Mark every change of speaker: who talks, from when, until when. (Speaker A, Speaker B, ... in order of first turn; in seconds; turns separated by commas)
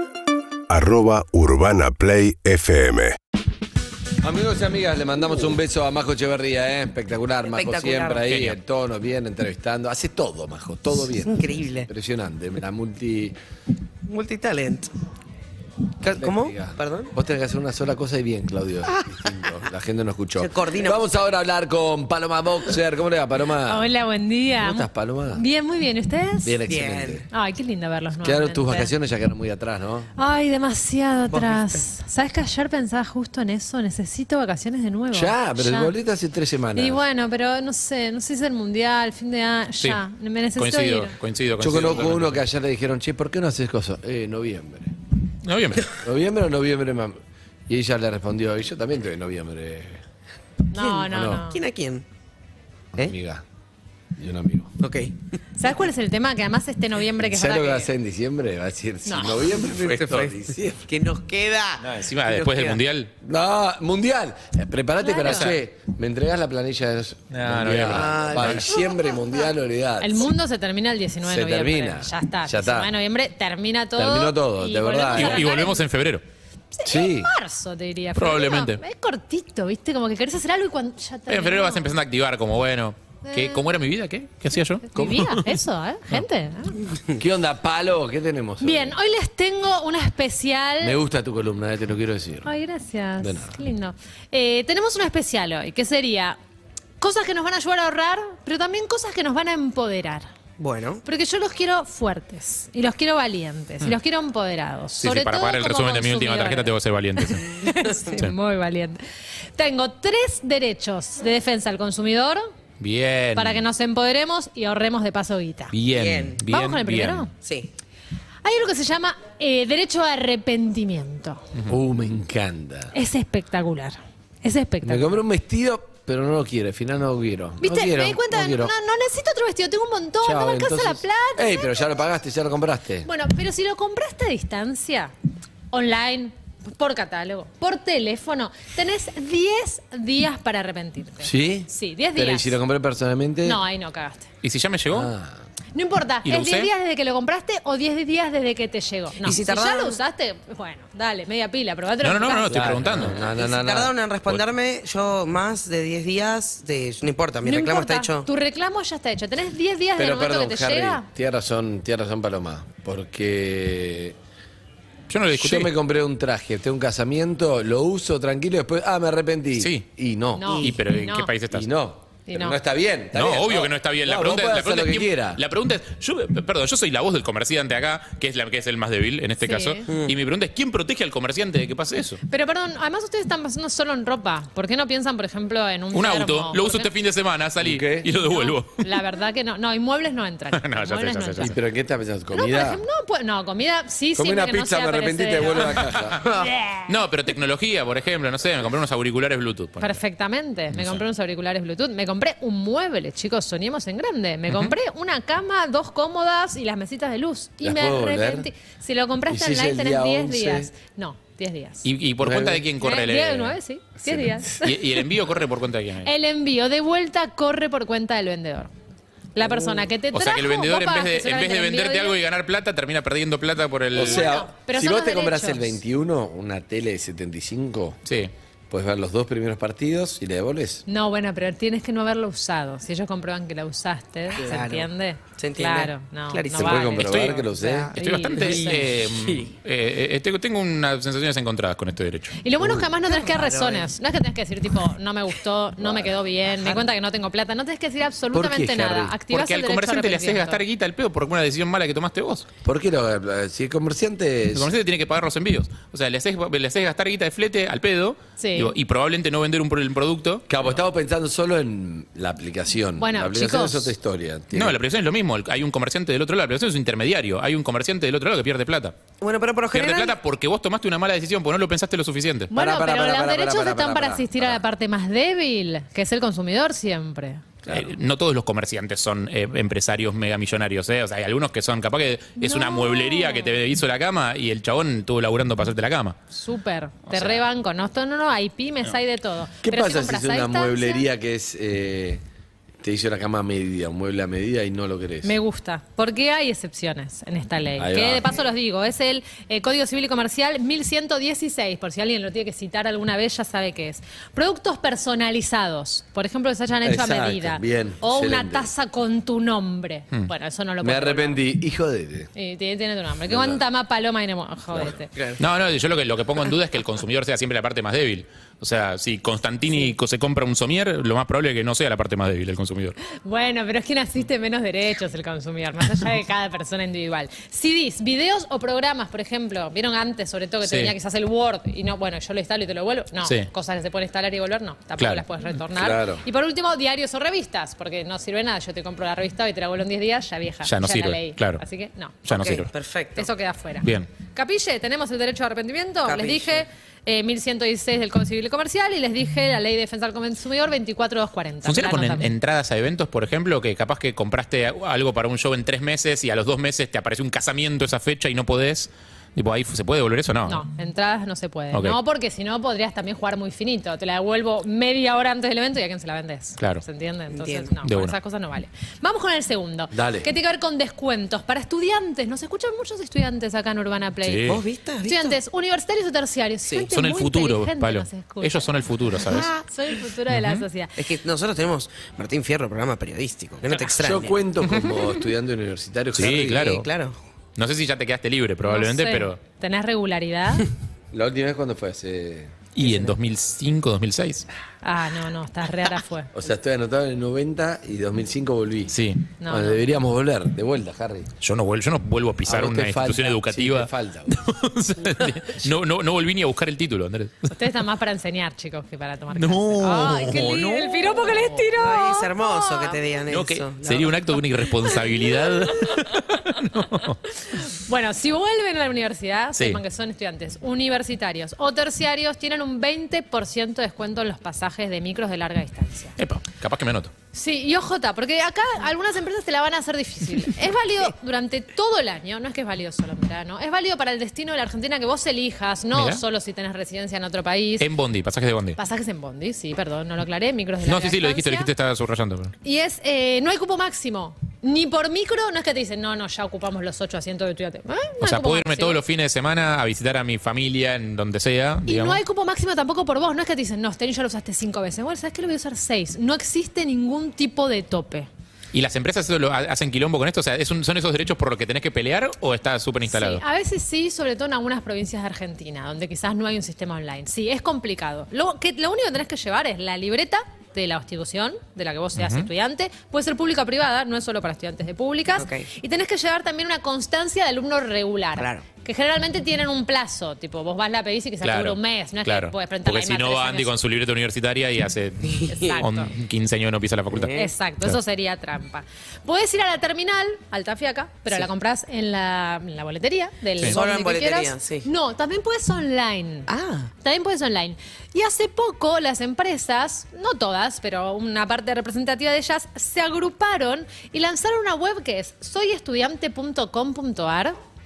Speaker A: 0.7-3.2, Speaker B: 4.2-13.3, Speaker C: 7.4-8.3, Speaker D: 8.2-8.6, Speaker C: 11.1-11.9, Speaker C: 14.0-14.9, Speaker C: 16.0-17.1, Speaker B: 16.0-23.9, Speaker C: 18.9-19.3, Speaker C: 20.4-21.1, Speaker E: 23.7-26.6, Speaker B: 24.6-25.4, Speaker B: 26.4-27.3, Speaker C: 26.7-27.2, Speaker E: 27.3-28.9, Speaker B: 28.2-30.1, Speaker E: 30.1-36.0, Speaker C: 31.3-31.8, Speaker B: 35.1-37.0, Speaker E: 36.8-41.1, Speaker D: 40.5-42.4, Speaker B: 41.6-44.9, Speaker D: 45.4-46.0, Speaker B: 45.9-47.2, Speaker B: 47.7-50.0, Speaker E: 50.7-51.6, Speaker C: 50.8-52.0, Speaker B: 51.1-51.4, Speaker B: 52.9-53.4, Speaker B: 54.2-54.8, Speaker C: 54.8-55.4, Speaker E: 55.5-57.9, Speaker B: 57.2-60.9, Speaker E: 59.0-59.5, Speaker C: 59.4-62.8, Speaker D: 61.8-63.1, Speaker B: 63.2-70.3, Speaker E: 65.0-65.5, Speaker D: 67.3-68.8, Speaker C: 67.8-68.6, Speaker E: 70.0-75.8, Speaker B: 71.2-72.9, Speaker B: 74.0-75.4, Speaker D: 75.1-76.2, Speaker E: 76.7-82.0, Speaker B: 76.8-77.3, Speaker D: 78.1-78.8, Speaker D: 81.3-85.6, Speaker E: 83.2-83.8, Speaker E: 84.9-86.9, Speaker B: 85.0-85.2, Speaker B: 87.1-89.0, Speaker E: 88.6-91.0, Speaker B: 90.8-92.5, Speaker E: 92.4-96.4, Speaker B: 93.2-93.6, Speaker E: 97.0-100.3, Speaker C: 100.6-101.0, Speaker E: 101.0-109.0, Speaker D: 105.0-107.5, Speaker E: 109.5-112.5, Speaker D: 112.8-113.6, Speaker E: 113.3-115.7, Speaker D: 115.7-117.3, Speaker C: 115.9-116.4, Speaker E: 116.5-117.3, Speaker C: 117.4-117.7, Speaker E: 118.4-121.4, Speaker B: 121.7-122.9, Speaker E: 122.9-125.2, Speaker B: 124.8-128.7, Speaker E: 127.6-131.8, Speaker B: 130.2-133.1, Speaker E: 133.0-135.1, Speaker E: 135.7-142.6, Speaker B: 141.2-143.6, Speaker E: 143.4-144.3, Speaker D: 144.4-145.1, Speaker B: 144.9-145.4, Speaker E: 145.7-152.8, Speaker D: 146.2-146.7, Speaker C: 149.2-150.0, Speaker D: 152.0-153.2, Speaker B: 152.5-154.3, Speaker C: 152.9-158.3, Speaker E: 157.4-161.0, Speaker B: 160.0-164.2, Speaker D: 165.1-165.7, Speaker B: 165.3-170.5, Speaker D: 169.6-169.8, Speaker E: 170.3-171.3, Speaker C: 170.4-170.7, Speaker D: 170.5-171.7, Speaker B: 171.5-175.4, Speaker E: 172.3-172.6, Speaker D: 173.1-182.2, Speaker E: 179.4-179.9, Speaker C: 179.9-180.1, Speaker E: 182.3-186.9, Speaker D: 185.9-189.0, Speaker B: 187.6-188.1, Speaker E: 188.2-191.5, Speaker D: 190.5-191.6, Speaker B: 191.4-192.8, Speaker E: 192.3-196.9, Speaker B: 194.2-196.2, Speaker D: 195.8-196.2, Speaker D: 196.9-200.0, Speaker E: 199.8-211.8, Speaker D: 200.7-201.0, Speaker B: 207.6-208.5, Speaker B: 209.3-210.7, Speaker D: 211.8-213.6, Speaker B: 212.2-212.7, Speaker E: 212.8-214.8, Speaker B: 214.0-214.4, Speaker D: 214.6-216.1, Speaker E: 216.0-218.7, Speaker E: 219.3-222.2, Speaker D: 220.1-224.3, Speaker B: 223.9-228.0, Speaker E: 224.0-225.8, Speaker D: 228.0-228.3, Speaker B: 228.7-230.8, Speaker E: 230.8-238.9, Speaker C: 234.3-236.9, Speaker B: 236.5-237.9, Speaker D: 237.0-237.4, Speaker D: 237.9-242.3, Speaker C: 238.4-238.8, Speaker E: 242.4-250.6, Speaker B: 242.6-242.9, Speaker C: 243.1-243.9, Speaker B: 245.8-246.8, Speaker B: 248.3-249.2, Speaker D: 249.3-252.5, Speaker B: 252.6-254.7, Speaker D: 254.5-260.4, Speaker E: 258.4-258.8, Speaker B: 260.5-264.8, Speaker E: 263.0-263.9, Speaker D: 264.5-268.9, Speaker C: 269.2-270.1, Speaker D: 269.7-272.5, Speaker E: 272.5-277.4, Speaker B: 272.5-274.6, Speaker B: 277.6-277.9, Speaker D: 277.7-286.2, Speaker E: 282.4-283.6, Speaker E: 286.3-291.1, Speaker D: 287.1-287.4, Speaker B: 289.6-292.2, Speaker B: 292.8-295.4, Speaker E: 295.2-311.4, Speaker B: 297.8-298.4, Speaker B: 306.8-308.7, Speaker B: 310.8-312.3, Speaker E: 312.3-315.1, Speaker B: 313.2-313.6, Speaker D: 315.4-322.9, Speaker E: 323.1-342.3, Speaker D: 330.6-330.9, Speaker D: 333.2-333.5, Speaker D: 335.0-335.2, Speaker B: 335.7-336.2, Speaker D: 340.6-341.6, Speaker D: 342.2-342.7, Speaker C: 342.3-343.3, Speaker E: 343.1-352.3, Speaker D: 343.8-344.1, Speaker C: 346.0-346.6, Speaker D: 351.6-360.6, Speaker E: 360.4-381.0, Speaker D: 361.7-362.0, Speaker D: 366.6-366.8, Speaker C: 367.3-367.7, Speaker D: 367.8-368.1, Speaker B: 369.9-370.3, Speaker D: 374.2-374.6, Speaker C: 374.4-375.4, Speaker D: 376.9-379.5, Speaker D: 380.3-380.6, Speaker C: 381.0-384.4, Speaker B: 384.0-386.7, Speaker D: 384.6-385.2, Speaker D: 386.1-386.9, Speaker C: 386.2-387.1, Speaker D: 387.6-389.4, Speaker E: 388.6-390.7, Speaker B: 391.1-392.5, Speaker D: 392.8-394.4, Speaker E: 392.8-393.1, Speaker E: 394.8-396.3, Speaker B: 396.3-398.9, Speaker D: 398.9-399.3, Speaker E: 399.4-399.8, Speaker B: 399.5-401.3, Speaker D: 401.4-407.5, Speaker B: 402.4-404.4, Speaker E: 407.5-413.0, Speaker D: 409.3-411.5, Speaker C: 411.8-414.3, Speaker D: 413.3-417.2, Speaker E: 417.5-426.1, Speaker D: 426.2-427.1, Speaker E: 427.3-437.9, Speaker D: 435.9-436.2, Speaker D: 437.8-438.8, Speaker E: 438.8-441.7, Speaker D: 440.8-442.5, Speaker E: 442.6-449.0, Speaker D: 448.2-452.2, Speaker E: 451.9-458.3, Speaker D: 458.7-463.4, Speaker E: 463.1-483.7, Speaker D: 472.1-472.5, Speaker C: 475.4-475.7, Speaker C: 478.4-478.6, Speaker D: 481.4-488.0, Speaker E: 485.5-486.1, Speaker C: 487.1-487.5, Speaker E: 487.3-496.5, Speaker C: 493.6-494.9, Speaker C: 496.5-496.9, Speaker E: 497.0-507.6